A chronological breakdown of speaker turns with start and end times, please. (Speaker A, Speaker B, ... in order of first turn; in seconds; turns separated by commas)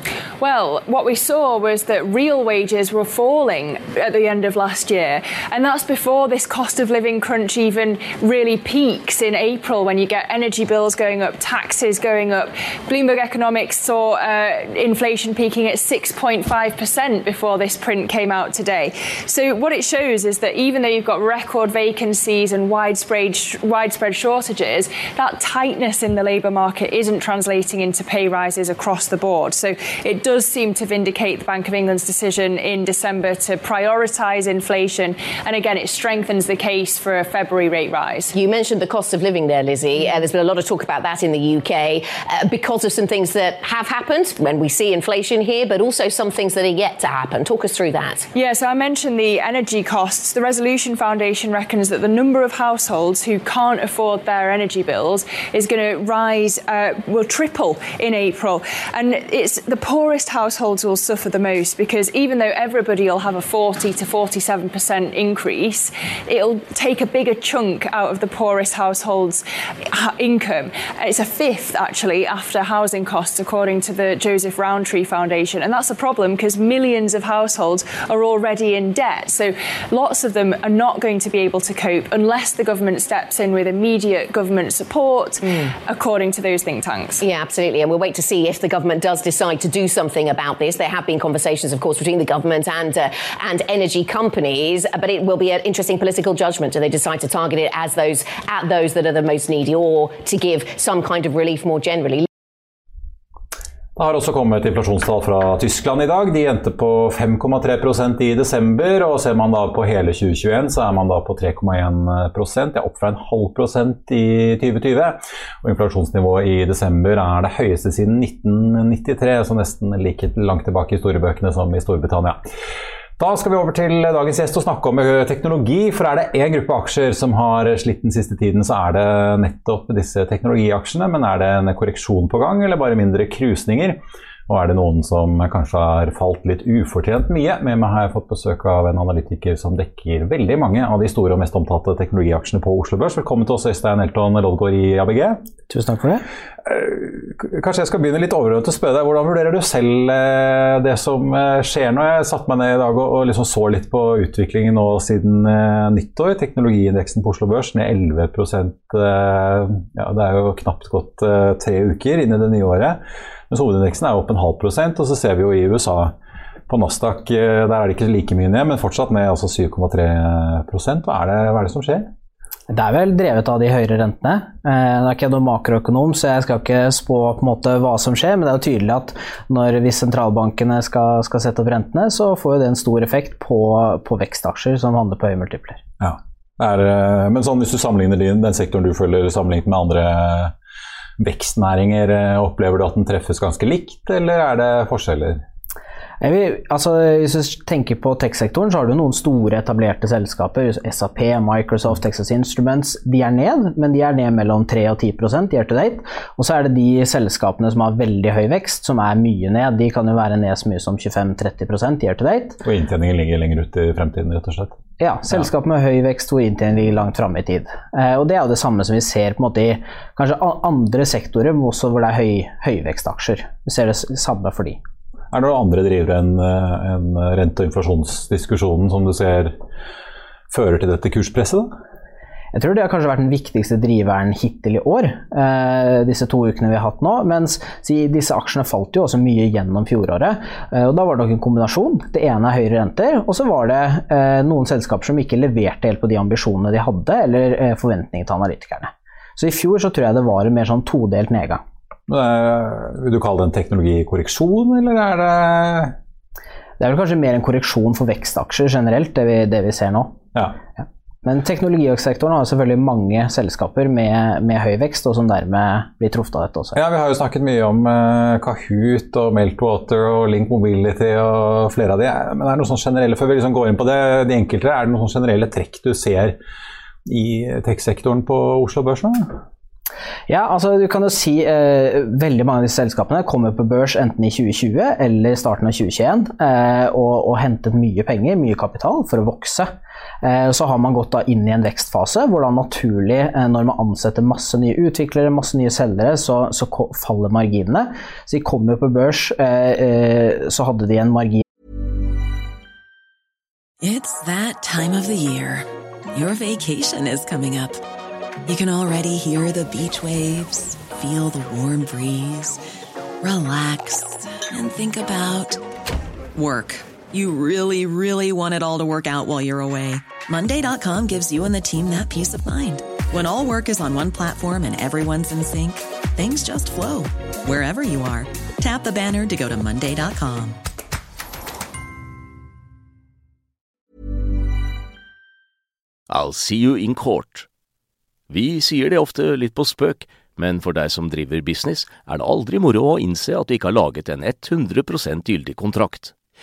Speaker A: 0.4-38.3, Speaker B: 38.3-48.2, Speaker A: 48.3-87.2, Speaker B: 85.4-85.7, Speaker B: 87.2-102.3, Speaker C: 104.0-122.4, Speaker C: 123.2-145.4, Speaker D: 145.7-146.2, Speaker C: 146.6-166.2, Speaker C: 166.7-172.1, Speaker D: 172.7-185.8, Speaker C: 186.0-190.5, Speaker C: 191.2-195.4, Speaker D: 196.2-212.6, Speaker C: 212.6-214.8, Speaker D: 215.0-224.8, Speaker C: 225.3-229.6, Speaker C: 230.5-231.7, Speaker D: 232.5-251.6, Speaker C: 252.1-255.9, Speaker D: 256.8-260.2, Speaker D: 261.2-266.8, Speaker C: 266.7-276.4, Speaker C: 277.1-279.3, Speaker D: 280.3-289.7, Speaker D: 290.2-301.4, Speaker E: 303.8-307.8, Speaker E: 308.4-312.6, Speaker E: 313.2-315.6, Speaker E: 316.3-330.6, Speaker F: 336.1-337.5, Speaker F: 338.3-346.1